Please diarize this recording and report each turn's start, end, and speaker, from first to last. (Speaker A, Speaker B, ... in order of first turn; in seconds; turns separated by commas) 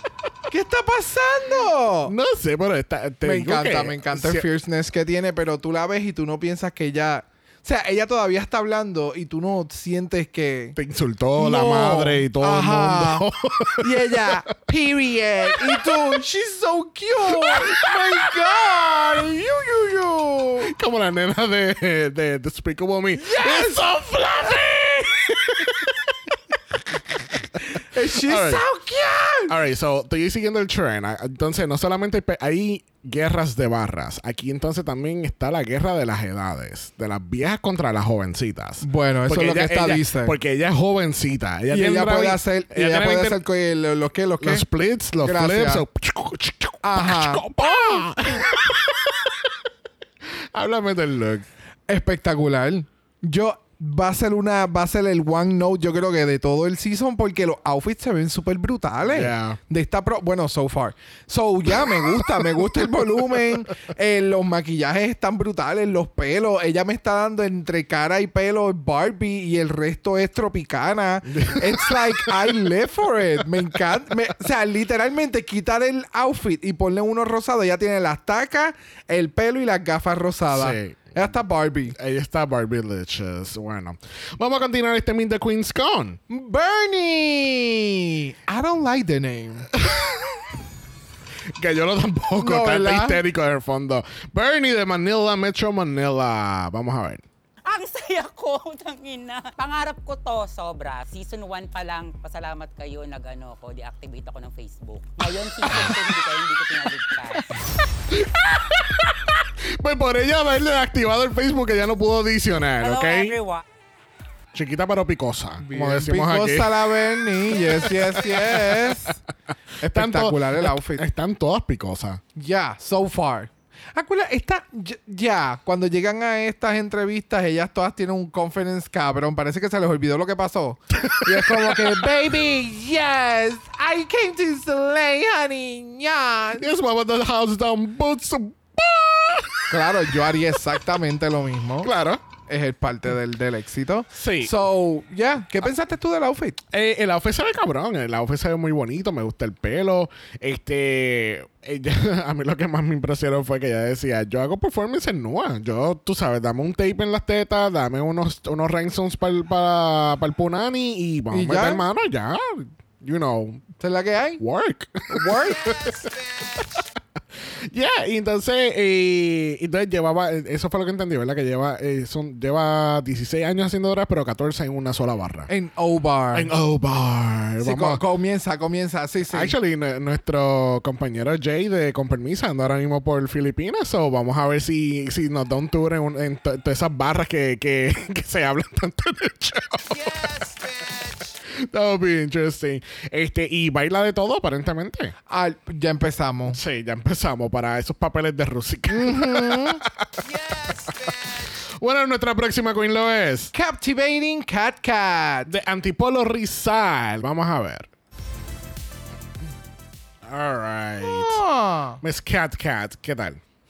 Speaker A: 0.5-2.1, Speaker B: 2.0-4.5, Speaker A: 3.2-10.8, Speaker B: 10.8-14.3, Speaker A: 11.4-13.3, Speaker A: 13.8-20.7, Speaker B: 15.5-16.1, Speaker B: 17.3-18.3, Speaker B: 20.6-26.1, Speaker A: 23.2-24.3, Speaker A: 27.6-29.6, Speaker B: 27.9-28.6, Speaker B: 29.5-43.4, Speaker A: 38.8-40.4, Speaker A: 41.7-44.6, Speaker B: 44.4-49.5, Speaker A: 45.2-45.9, Speaker A: 46.8-47.6, Speaker B: 50.5-51.5, Speaker A: 51.9-82.0, Speaker B: 59.0-59.6, Speaker B: 71.3-72.5, Speaker B: 80.5-81.3, Speaker B: 81.9-86.2, Speaker A: 86.3-89.7, Speaker B: 89.7-90.5, Speaker B: 91.6-97.2, Speaker A: 92.4-93.2, Speaker C: 97.7-107.5, Speaker B: 105.6-106.0, Speaker B: 108.1-113.4, Speaker C: 112.8-113.6, Speaker B: 114.5-119.0, Speaker A: 115.6-119.2, Speaker A: 119.8-121.0, Speaker B: 119.8-122.2, Speaker A: 122.4-136.7, Speaker B: 130.9-132.1, Speaker B: 136.6-140.3, Speaker A: 139.7-141.9, Speaker B: 141.8-142.2, Speaker A: 142.5-146.6, Speaker B: 144.1-144.6, Speaker B: 146.7-163.6, Speaker A: 161.3-161.8, Speaker A: 163.8-164.4, Speaker B: 164.4-166.8, Speaker A: 165.1-165.7, Speaker B: 167.7-175.5, Speaker A: 175.5-176.5, Speaker B: 176.3-178.0, Speaker A: 177.6-179.6, Speaker B: 179.3-190.7, Speaker B: 191.4-195.1, Speaker A: 195.3-196.6, Speaker B: 196.5-203.5, Speaker A: 198.9-199.8, Speaker A: 203.5-205.5, Speaker B: 205.5-207.9, Speaker B: 210.2-211.4, Speaker A: 211.0-212.0, Speaker B: 212.0-213.4